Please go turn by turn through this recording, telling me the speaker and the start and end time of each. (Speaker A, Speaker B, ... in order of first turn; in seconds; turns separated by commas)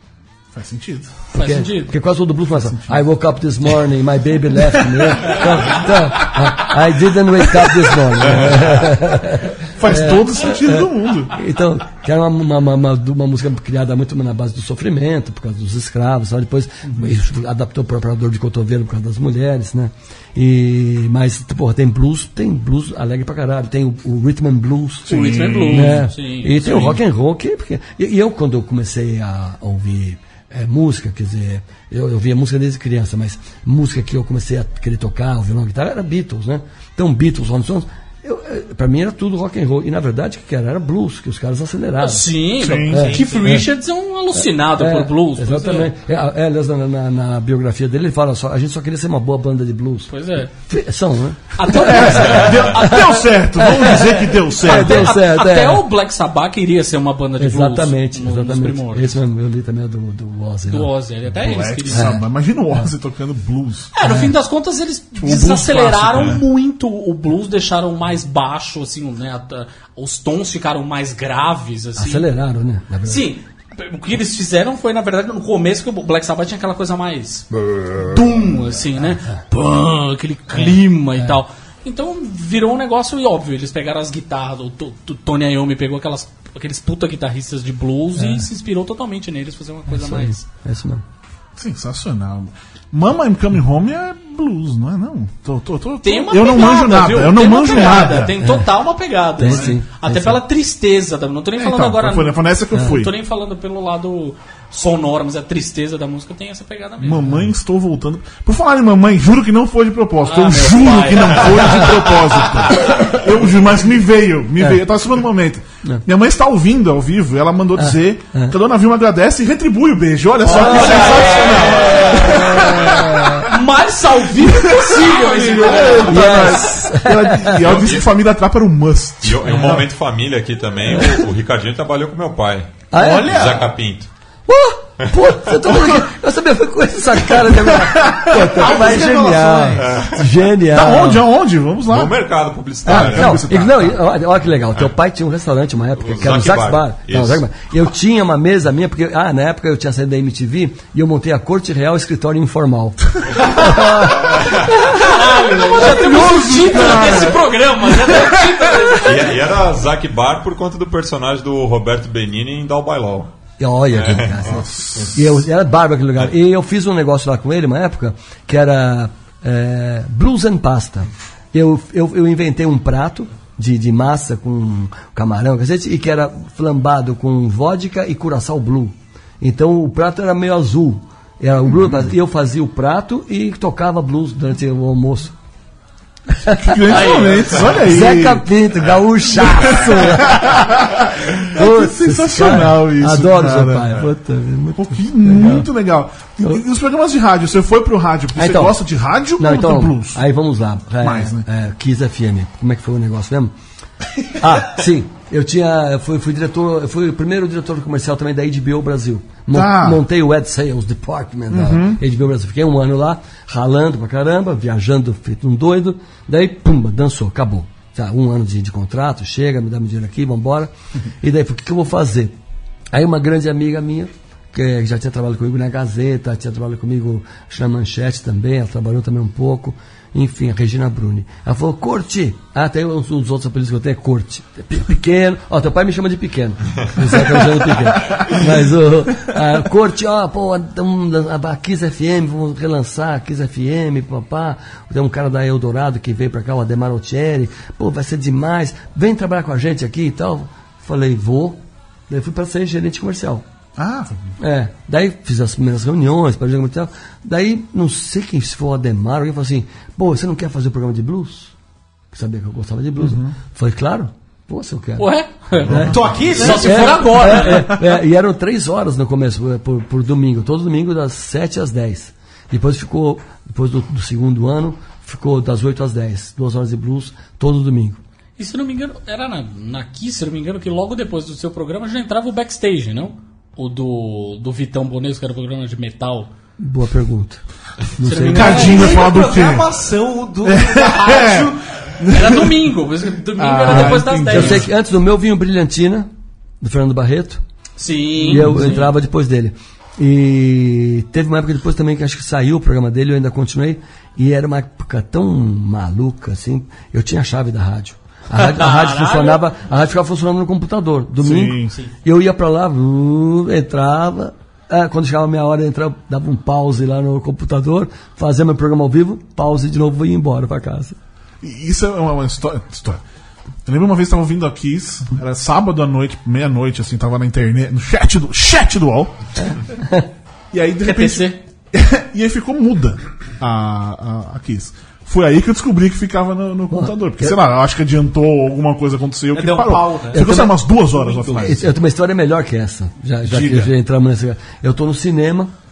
Speaker A: 0.5-1.3, Speaker B: 1.3-2.0, Speaker C: 1.3-43.7, Speaker A: 2.6-3.0, Speaker A: 5.2-5.5, Speaker A: 9.8-11.3, Speaker B: 25.1-27.0, Speaker A: 25.1-26.1, Speaker B: 42.0-45.9, Speaker A: 42.6-43.1, Speaker D: 42.9-43.2, Speaker C: 44.4-55.8, Speaker B: 50.1-50.5, Speaker B: 51.6-54.0, Speaker A: 51.7-55.1, Speaker B: 54.6-59.1, Speaker C: 57.4-60.9, Speaker B: 60.7-62.1, Speaker A: 61.4-63.9, Speaker C: 61.9-62.2, Speaker B: 64.0-72.3, Speaker C: 64.0-64.4, Speaker A: 65.2-66.4, Speaker C: 72.0-73.3, Speaker B: 73.1-90.4, Speaker C: 80.7-81.4, Speaker C: 88.2-88.5, Speaker C: 89.9-91.0, Speaker A: 91.6-98.4, Speaker B: 96.0-107.2, Speaker C: 98.4-98.7, Speaker C: 99.4-100.4, Speaker A: 99.4-99.8, Speaker A: 101.6-103.1, Speaker A: 107.0-123.5, Speaker B: 110.2-113.1, Speaker C: 117.8-118.6, Speaker B: 120.4-126.8, Speaker C: 120.5-123.5, Speaker A: 124.4-129.9, Speaker D: 125.4-125.8, Speaker C: 126.0-127.9, Speaker E: 129.2-134.1, Speaker C: 130.9-131.3, Speaker C: 132.9-133.6, Speaker D: 133.0-133.7, Speaker C: 134.5-141.3, Speaker A: 137.4-138.5, Speaker D: 138.4-140.1, Speaker E: 139.8-140.3, Speaker A: 140.7-142.2, Speaker E: 141.9-143.5, Speaker A: 142.8-144.0, Speaker C: 142.8-155.0, Speaker E: 146.0-147.4, Speaker B: 154.9-159.3, Speaker A: 155.7-159.0, Speaker C: 156.1-156.6, Speaker E: 159.0-163.3, Speaker C: 163.6-185.3, Speaker E: 163.9-164.7, Speaker A: 164.6-165.2, Speaker C: 186.3-195.7, Speaker A: 186.6-188.5, Speaker B: 186.9-187.8, Speaker A: 189.4-194.1, Speaker A: 194.8-200.2, Speaker C: 198.3-198.8, Speaker C: 199.4-203.5, Speaker A: 201.0-201.5, Speaker C: 204.3-222.4, Speaker A: 209.5-210.0, Speaker A: 211.5-212.0, Speaker C: 222.9-253.4, Speaker A: 253.8-254.3, Speaker C: 254.4-261.5, Speaker C: 262.1-278.0, Speaker A: 263.0-263.4, Speaker B: 265.0-267.8, Speaker A: 265.7-265.9, Speaker D: 265.8-267.4, Speaker B: 278.4-286.3, Speaker C: 286.6-287.4, Speaker C: 288.0-288.9, Speaker B: 288.0-289.1, Speaker A: 288.2-289.7, Speaker D: 288.5-291.6, Speaker A: 290.5-292.6, Speaker B: 292.1-294.7, Speaker A: 293.4-294.7, Speaker C: 293.7-296.1, Speaker C: 296.6-297.4, Speaker B: 297.8-298.9, Speaker A: 298.2-298.8, Speaker C: 298.2-321.0, Speaker B: 308.3-309.4, Speaker A: 311.2-311.8, Speaker A: 321.4-323.0, Speaker A: 323.6-329.5, Speaker A: 330.5-341.7, Speaker B: 330.8-331.4, Speaker C: 336.7-337.4, Speaker D: 339.3-340.4, Speaker C: 340.1-345.5, Speaker D: 341.0-341.4, Speaker A: 343.2-343.7